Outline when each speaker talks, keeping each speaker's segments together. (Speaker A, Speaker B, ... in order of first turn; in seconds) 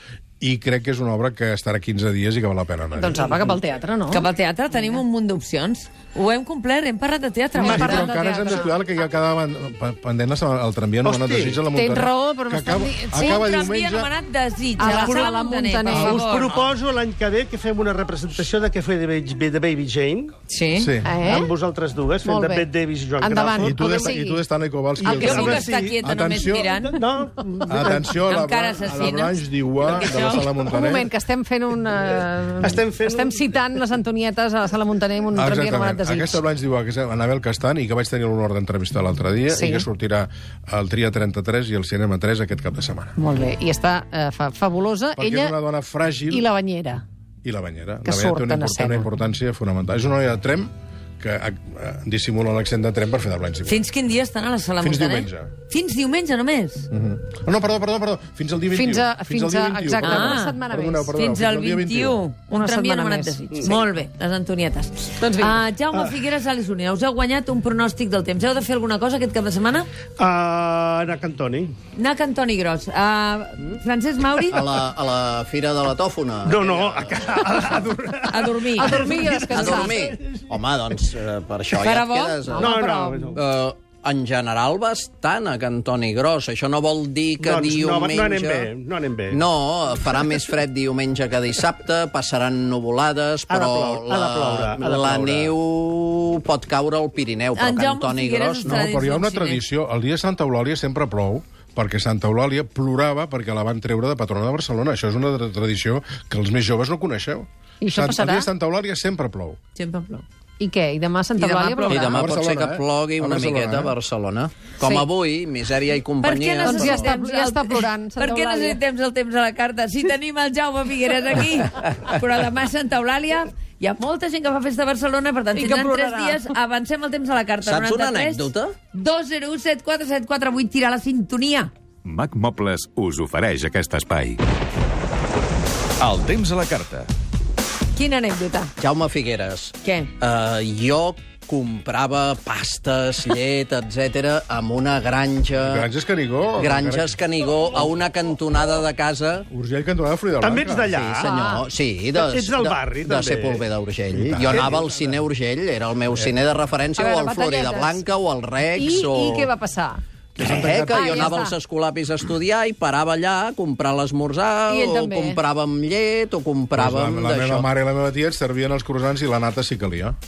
Speaker A: 0.4-3.2, 7.6-14.1, 15.9-16.5, 20.8-21.1, 23.6-26.7, 27.7-31.1, 35.3-43.1, 45.2-46.5, 47.4-53.8, 54.8-55.5, 56.9-62.2, 98.6-109.6, 111.9-113.9, 145.6-147.2, 149.5-150.9, 160.4-161.4, 166.7-170.2
Speaker B: 2.9-4.8, 7.5-8.7, 11.7-13.4, 14.8-16.6, 21.0-21.5, 22.2-22.7, 23.2-24.4, 25.1-25.4, 30.6-36.4, 39.5-39.9, 43.1-45.5, 46.3-47.0, 48.0-49.1, 58.7-61.1, 62.5-63.8, 65.2-65.6, 78.8-80.1, 82.5-83.4, 107.8-108.5, 110.6-112.2, 114.8-115.1, 116.6-118.8, 125.5-126.4, 151.2-151.7, 156.9-158.0, 158.7-160.0, 160.7-161.6, 164.7-165.4
Speaker C: 4.1-8.4, 13.2-16.5, 20.5-20.9, 25.1-27.0, 28.2-30.5, 53.6-56.9, 60.0-60.6, 61.1-69.9, 71.9-74.8, 78.3-79.2, 81.8-82.4, 97.5-99.6, 109.7-110.2, 111.4-112.1, 116.2-131.7, 138.1-138.7, 139.8-140.1
Speaker D: 11.0-11.6, 14.8-15.3, 15.9-20.3, 21.2-24.2, 25.0-28.2, 32.6-33.5, 70.2-71.7, 76.4-80.4, 82.5-83.4, 87.4-89.4, 93.5-95.5, 150.4-151.3, 152.1-154.8
Speaker E: 74.5-77.1, 79.5-82.7, 83.3-88.7, 89.3-98.7, 111.9-117.0, 127.6-128.7, 138.8-145.8, 146.6-149.4, 150.9-159.5, 160.4-167.6
Speaker F: 132.1-134.3, 136.2-136.9